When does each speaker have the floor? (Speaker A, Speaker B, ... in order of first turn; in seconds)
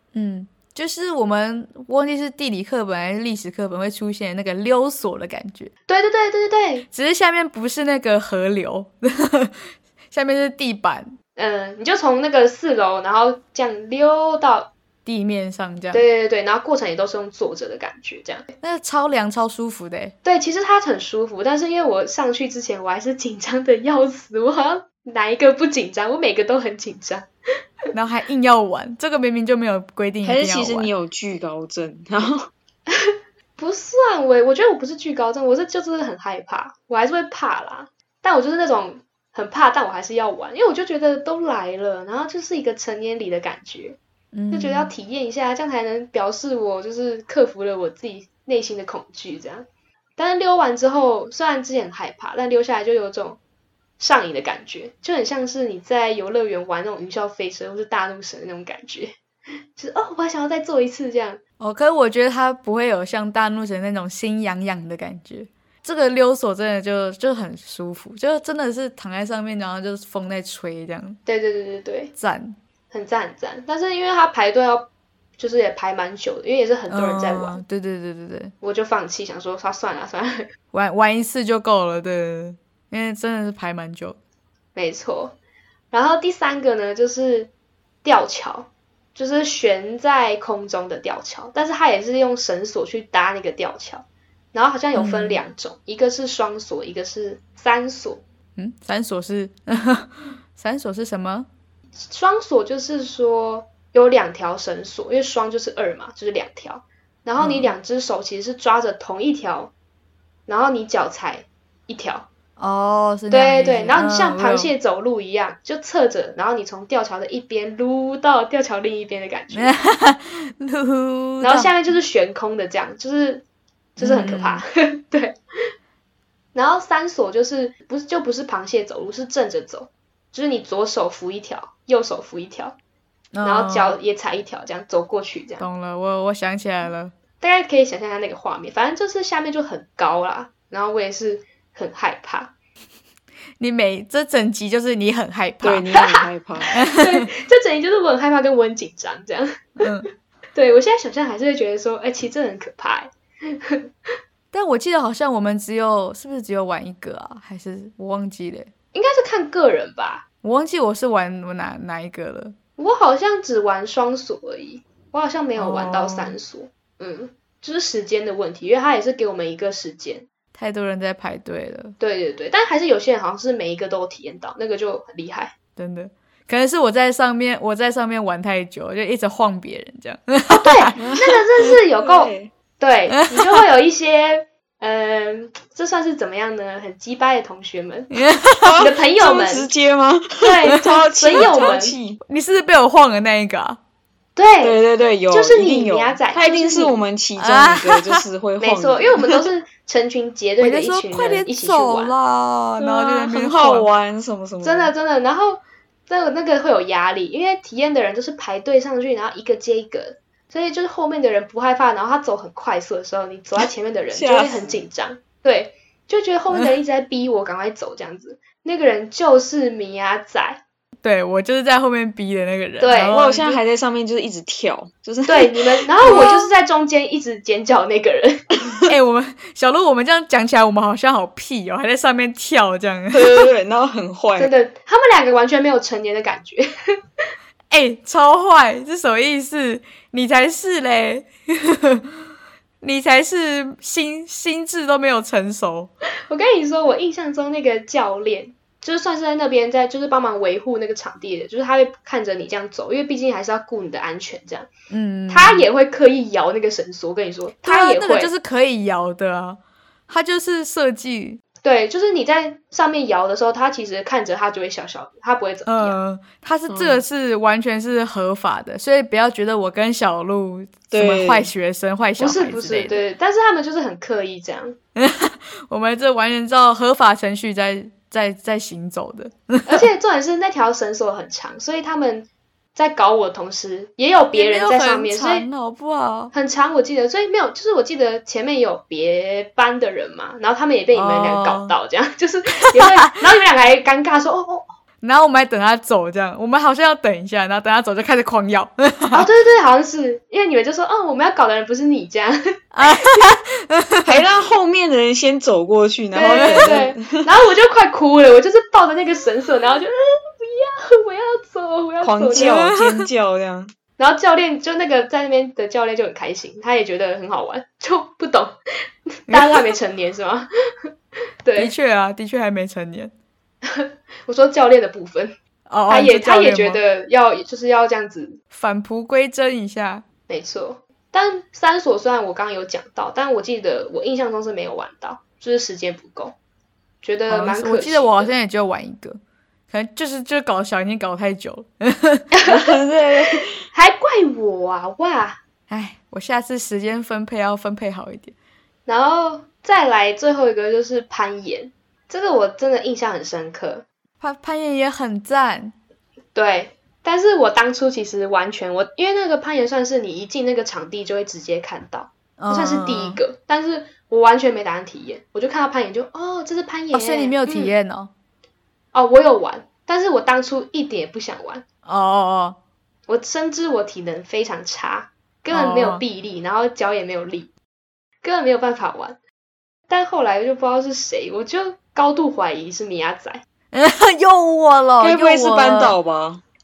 Speaker A: 0.1-5.7, 6.9-11.1, 15.1-16.0, 18.6-20.1, 27.9-30.9, 44.3-44.9, 61.6-71.2, 72.2-72.6, 76.9-78.5, 80.7-84.2, 94.9-95.4, 98.6-101.5, 107.4-107.7, 112.6-114.7, 119.5-121.7, 124.0-124.6, 133.3-133.9, 135.6-137.1, 143.6-145.9, 146.7-147.3, 149.8-150.1, 154.5-158.7, 160.4-162.5, 165.6-166.4, 170.6-171.9, 175.8-180.8, 183.3-183.6, 188.1-188.7, 190.6-191.6, 192.3-193.8, 197.4-198.2, 200.6-203.9, 216.5-216.8, 221.0-223.6, 226.0-226.4, 228.8-233.5, 237.7-242.1, 242.8-245.9, 254.9-255.6, 257.6-261.4, 265.7-273.0, 274.9-279.8, 284.3-286.3, 290.9-291.7, 295.0-299.2, 302.7-304.2, 306.2-306.9, 312.4-312.7, 319.3-319.7, 321.6-323.1, 325.7-326.8, 328.5-330.0, 337.3-339.2, 339.7-342.3, 345.7-348.3, 354.2-355.7, 362.4-363.2, 366.9-368.1, 371.8-372.6, 375.5-376.0, 383.7-386.0
Speaker B: 5.9-6.8, 11.3-14.7, 15.9-18.4, 20.2-27.2, 33.0-44.0, 44.5-49.7, 50.2-53.4, 54.0-59.1, 59.7-61.4, 71.2-72.1, 72.9-77.6, 78.6-80.5, 84.7-85.3, 85.9-87.5, 88.0-98.2, 102.0-109.7, 110.5-112.3, 113.3-119.7, 121.4-123.4, 124.0-125.3, 126.5-132.8, 133.4-135.7, 137.4-142.5, 145.9-149.9, 150.6-153.8, 158.9-160.2, 162.8-170.2, 172.0-175.5, 180.5-188.2, 188.8-189.7, 190.4-192.0, 194.3-194.8, 195.3-197.0, 198.6-202.1, 204.6-220.6, 222.8-223.2, 225.2-228.6, 234.4-236.7, 246.3-254.7, 255.3-258.3, 261.6-266.0, 272.2-274.8, 279.7-285.4, 286.3-294.7, 299.1-303.1, 306.1-312.6, 314.0-318.6, 319.3-320.9, 321.4-321.7, 323.6-325.3, 325.9-328.4, 330.3-336.3, 337.0-338.3, 343.7-345.4, 348.9-353.8, 356.3-367.7, 368.9-371.6, 373.1-377.5, 378.2-379.2, 379.9-383.4
Speaker C: 30.2-32.5, 145.6-146.7, 181.0-181.4, 182.0-182.5, 188.6-192.2, 194.6-199.3, 202.8-204.9, 214.1-214.8, 223.1-226.3, 233.1-234.5, 266.7-267.0, 270.9-271.5, 304.1-307.2, 312.0-313.7, 342.4-343.5, 385.0-386.4